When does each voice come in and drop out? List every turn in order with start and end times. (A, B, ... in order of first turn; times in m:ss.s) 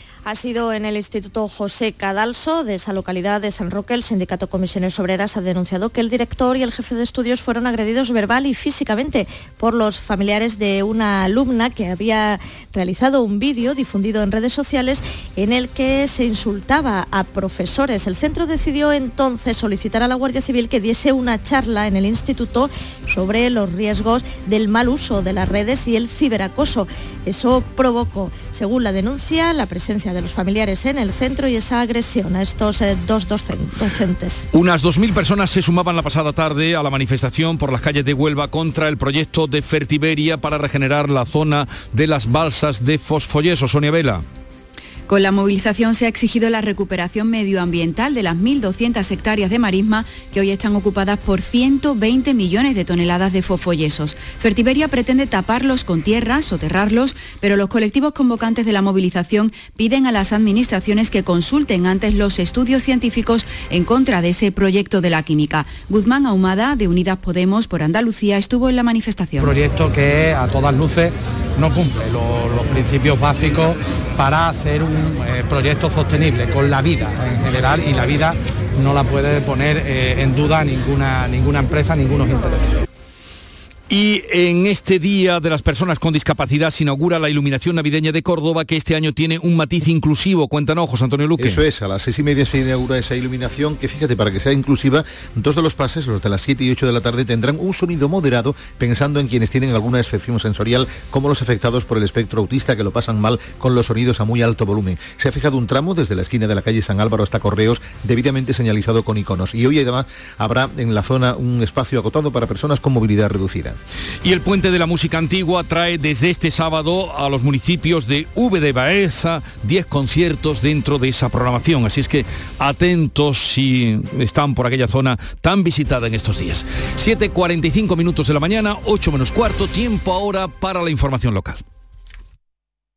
0:00.3-0:34.5 A
0:34.5-0:44.2 B
0:45.1-1:09.5 C
1:09.6-1:22.8 D
1:23.9-1:31.6 B
1:31.4-1:53.8 E
1:54.2-2:11.6 B